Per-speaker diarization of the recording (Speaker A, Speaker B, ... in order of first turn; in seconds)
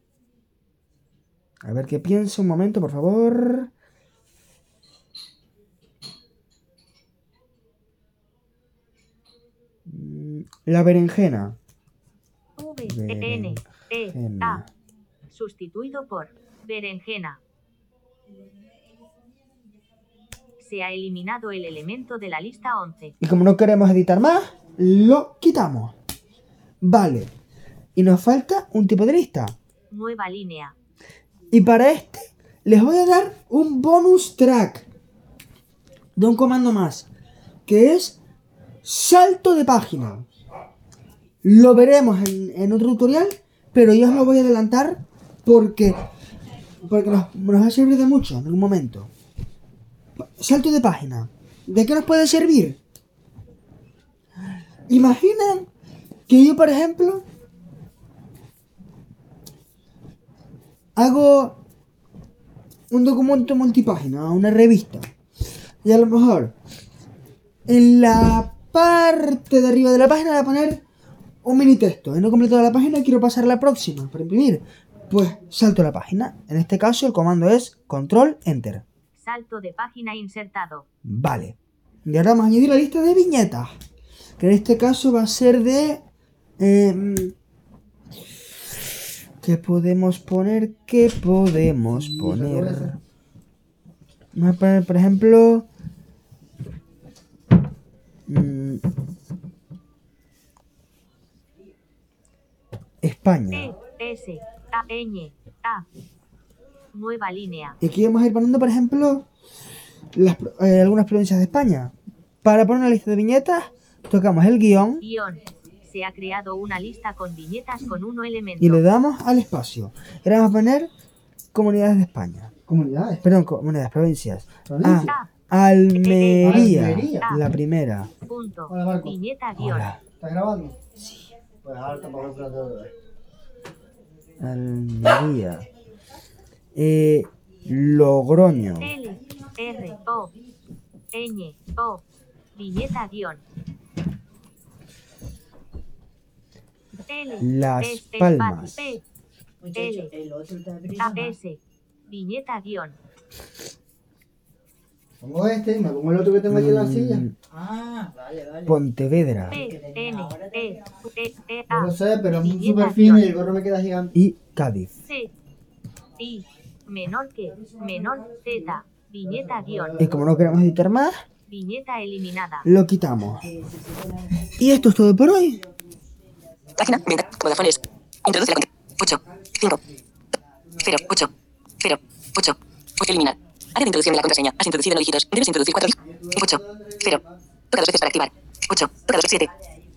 Speaker A: 1.6-3.7, 9.9-11.6, 12.9-14.7, 23.2-25.9, 26.8-27.3, 27.9-29.6, 31.5-34.9, 36.2-37.1, 37.7-38.2, 38.8-40.3, 41.4-46.0, 46.9-49.1, 50.2-52.8, 54.9-55.7, 56.3-57.2, 61.0-61.6, 62.9-65.1, 65.8-66.5, 67.7-70.8, 71.4-78.8, 81.0-83.7, 84.4-86.0, 86.6-87.3, 89.4-93.0, 94.3-95.7, 98.3-98.8, 103.0-103.8, 107.8-109.3, 110.1-115.0, 118.6-120.9, 121.5-122.5, 123.2-128.1, 129.6-130.0, 131.0-131.3, 134.4-135.7, 136.8-138.9, 147.4-148.9, 156.5-157.3, 158.7-159.6, 164.1-164.9, 170.0-171.2, 172.7-173.5, 174.6-175.6
Speaker B: 12.6-14.6, 15.3-17.4, 20.6-23.1, 29.9-30.8, 79.1-80.9, 103.5-105.9, 106.9-107.8, 115.0-118.8, 126.0-126.7, 128.3-129.9, 138.8-140.3, 141.1-142.0, 142.6-143.4, 147.1-149.0, 149.7-150.2, 150.9-153.0, 159.5-163.3, 165.1-165.3, 166.2-170.1, 171.5-172.7
Speaker C: 92.0-92.9, 122.7-123.2, 124.7-125.1, 126.4-127.3, 128.7-129.1, 130.2-130.8, 131.6-132.9, 155.2-157.2, 158.3-158.6, 161.7-164.1, 186.1-187.2
Speaker D: 149.7-151.1, 157.7-158.1, 159.8-160.5, 173.7-174.1
Speaker E: 176.8-179.8, 180.8-189.5